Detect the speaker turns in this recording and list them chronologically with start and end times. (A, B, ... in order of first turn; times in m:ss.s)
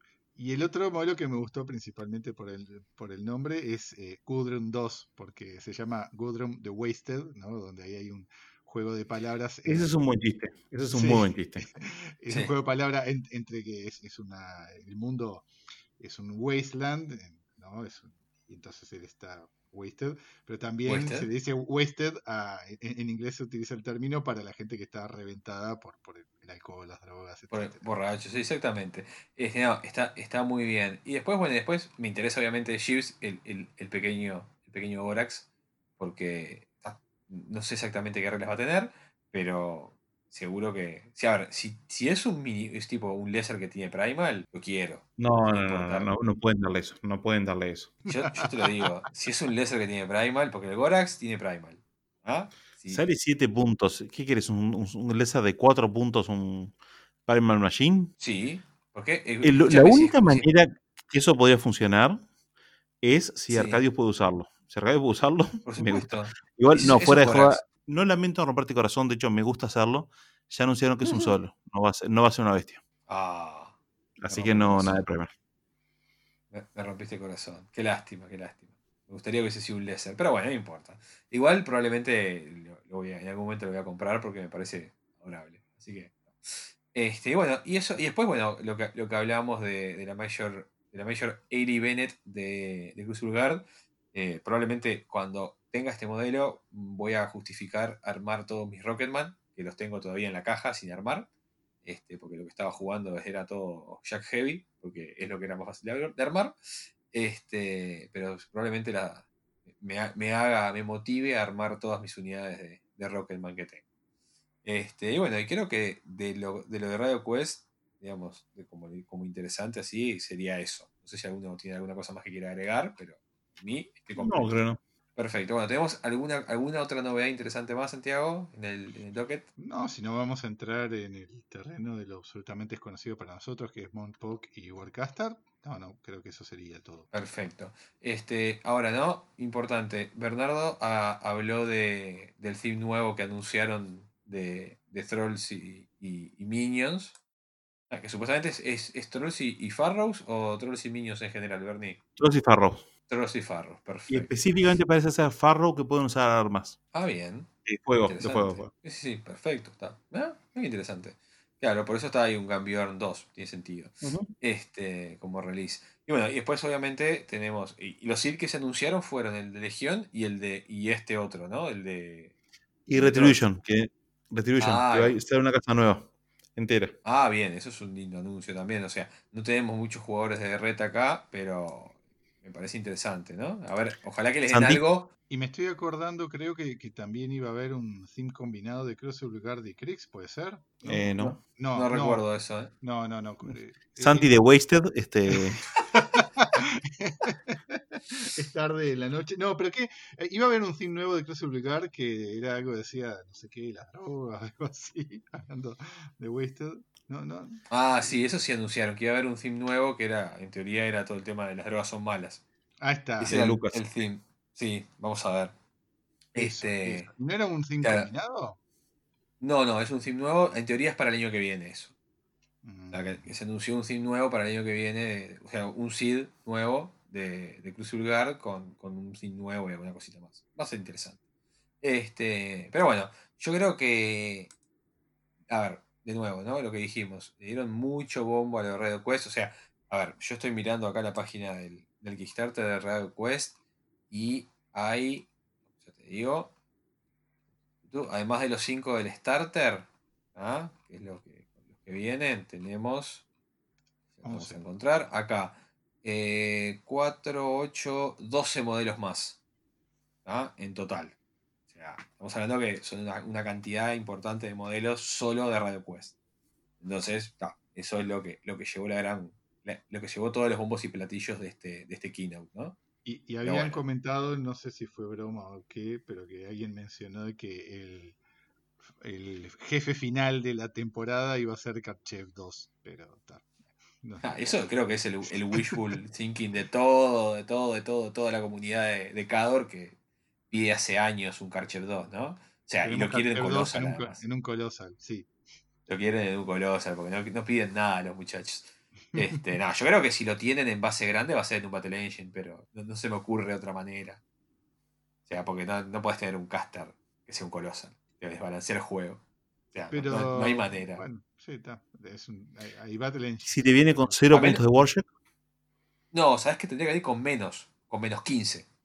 0:00.4-0:09.9 A
0:09.7-0:11.7 B
0:10.9-0:15.5 A
0:16.0-0:27.9 A
0:20.9-0:21.3 C
0:27.5-0:35.5 C
0:36.0-0:46.1 C
0:45.2-0:48.0 B
0:48.1-0:53.0 C
0:52.9-0:56.7 B
0:57.3-0:58.1 B
0:58.2-1:00.5 C
0:59.4-1:02.2 B
1:03.0-1:12.8 B
1:03.5-1:03.8 C
1:05.6-1:07.6 C
1:11.0-1:11.3 C
1:13.1-1:13.8 C
1:14.2-1:15.3 B
1:14.3-1:15.0 C
1:16.5-1:41.3 C
1:41.8-1:46.6 C
1:47.1-1:49.2 C
1:49.8-1:53.8 C
1:54.6-2:04.6 C
2:04.2-2:04.8 B
2:05.2-2:09.5 C
2:09.6-2:17.1 A
2:17.1-2:27.2 C
2:27.9-2:32.0 C
2:32.2-2:32.9 B
2:33.1-2:34.3 C
2:34.1-2:36.8 B
2:36.9-2:37.5 C
2:37.7-2:38.7 B
2:38.0-2:52.3 C
2:44.0-2:44.3 B
2:52.9-2:57.0 B
2:52.9-2:53.4 C
2:54.6-2:55.2 C
2:57.0-3:05.1 C
3:04.5-3:04.8 B
3:05.3-3:12.2 A
3:10.8-3:11.4 B
3:11.7-3:12.7 C
3:12.8-3:14.3 A
3:14.0-3:15.7 B
3:15.9-3:27.6 A
3:27.7-3:32.4 C
3:32.8-3:33.4 A
3:33.2-3:35.5 C
3:33.3-3:33.8 B
3:36.4-3:37.1 C
3:36.4-3:38.6 A
3:37.8-3:38.1 C
3:39.4-3:41.9 C
3:42.6-3:43.3 A
3:42.9-3:51.2 C
3:51.8-3:54.5 C
3:55.5-4:03.5 C
4:04.1-4:05.3 C
4:05.9-4:06.5 C
4:07.9-4:13.2 C
4:14.2-4:19.4 C
4:14.2-4:14.6 A
4:20.2-4:21.1 C
4:21.7-4:26.1 C
4:26.8-4:32.8 C
4:33.0-4:38.2 A
4:33.4-4:33.8 C
4:39.0-4:44.6 A
4:44.2-4:50.0 C
4:45.5-4:45.8 A
4:50.5-4:54.2 C
4:52.8-4:55.3 A
4:55.9-5:04.2 C
5:05.3-5:09.2 C
5:09.7-5:11.1 C
5:09.9-5:14.5 A
5:13.5-5:15.1 B
5:14.3-5:14.6 C
5:16.1-5:18.7 C